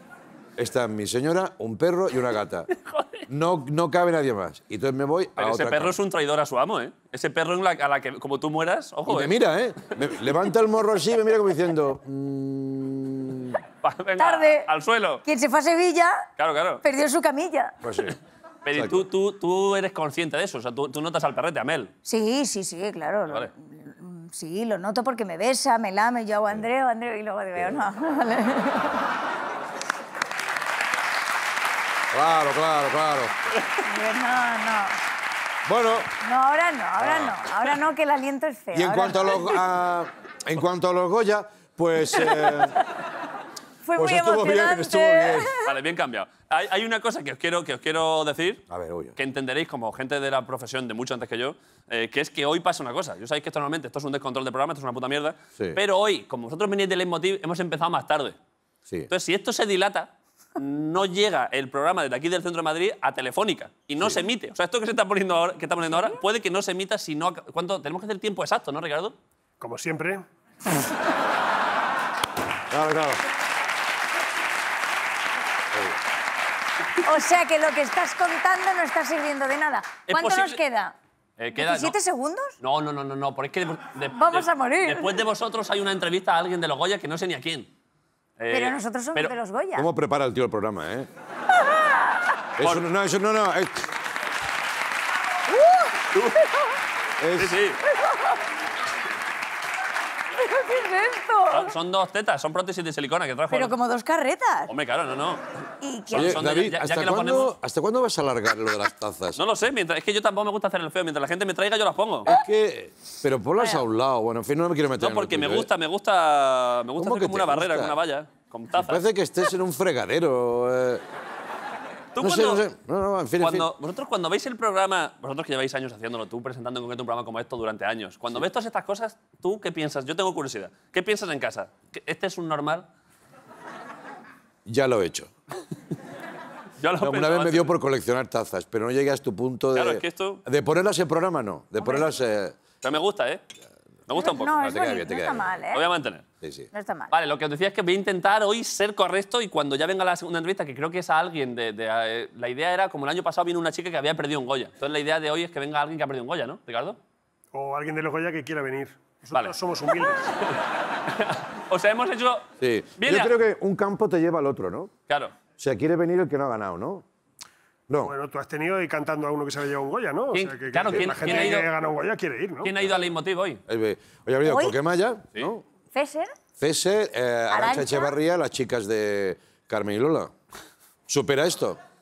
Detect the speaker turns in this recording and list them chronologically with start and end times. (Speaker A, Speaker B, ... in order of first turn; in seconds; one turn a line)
Speaker A: 0.6-2.7
Speaker B: 2.7-3.3
Speaker A: 3.3-6.0
Speaker B: 5.4-9.4
Speaker A: 9.1-13.6
Speaker B: 13.8-15.2
Speaker C: 14.2-14.7
Speaker C: 15.2-16.3
Speaker B: 16.4-16.8
Speaker C: 16.8-17.8
Speaker A: 17.8-18.2
Speaker B: 18.6-21.9
Speaker A: 18.7-19.1
Speaker C: 22.1-29.1
Speaker A: 32.1-33.3
Speaker C: 33.8-35.0
Speaker A: 35.7-36.1
Speaker C: 36.2-39.6
Speaker A: 37.0-37.4
Speaker A: 38.7-42.8
Speaker C: 43.8-45.7
Speaker A: 43.9-45.6
Speaker B: 45.6-48.6
Speaker A: 48.7-49.2
Speaker B: 49.2-58.4
Speaker B: 59.1-69.2
Speaker D: 69.6-70.2
Speaker A: 72.7-73.2
Speaker C: 77.0-81.0
Speaker B: 80.1-80.6
Speaker B: 81.4-82.0
Speaker C: 81.6-82.6
Speaker B: 82.6-87.7
Speaker C: 84.1-85.2
Speaker B: 88.4-89.3
Speaker C: 88.5-89.9
Speaker A: 89.8-91.1
Speaker A: 92.6-93.9
Speaker B: 96.1-96.6
Speaker A: 97.2-97.6
Speaker B: 97.4-97.8
Speaker C: 100.4-101.7
Speaker B: 101.5-103.8
Speaker C: 103.5-104.7
Speaker B: 104.7-105.4
Speaker C: 105.8-106.4
Speaker B: 106.1-107.6
Speaker A: 106.1-109.4
Speaker B: 109.4-112.3
Speaker A: 112.2-115.7
Speaker B: 115.0-119.0
Speaker A: 117.0-118.0
Speaker A: 118.7-121.0
Speaker B: 122.2-122.7
Speaker A: 122.2-123.7
Speaker B: 123.4-132.9
Speaker A: 134.7-135.3
Speaker B: 136.8-137.8
Speaker A: 137.0-142.6
Speaker B: 139.7-140.4
Speaker C: 141.8-142.1
Speaker B: 142.8-143.4
Speaker B: 144.1-144.5
Speaker C: 144.1-145.9
Speaker A: 144.6-145.6
Speaker B: 145.7-146.2
Speaker A: 146.4-146.7
Speaker C: 146.7-147.1
Speaker B: 147.1-157.0
Speaker D: 157.5-160.3
Speaker B: 159.3-162.5
Speaker A: 162.6-164.9
Speaker B: 163.0-163.3
Speaker B: 165.1-165.3
Speaker A: 165.6-167.1
Speaker A: 167.9-168.1
Speaker D: 168.0-172.7
Speaker B: 170.3-171.7
Speaker A: 170.9-171.3
Speaker B: 172.6-173.6
Speaker A: 173.7-175.6
Speaker C: 174.4-174.8
Speaker C: 175.9-176.3
Speaker A: 176.6-180.3
Speaker C: 177.5-178.2
Speaker A: 181.1-181.8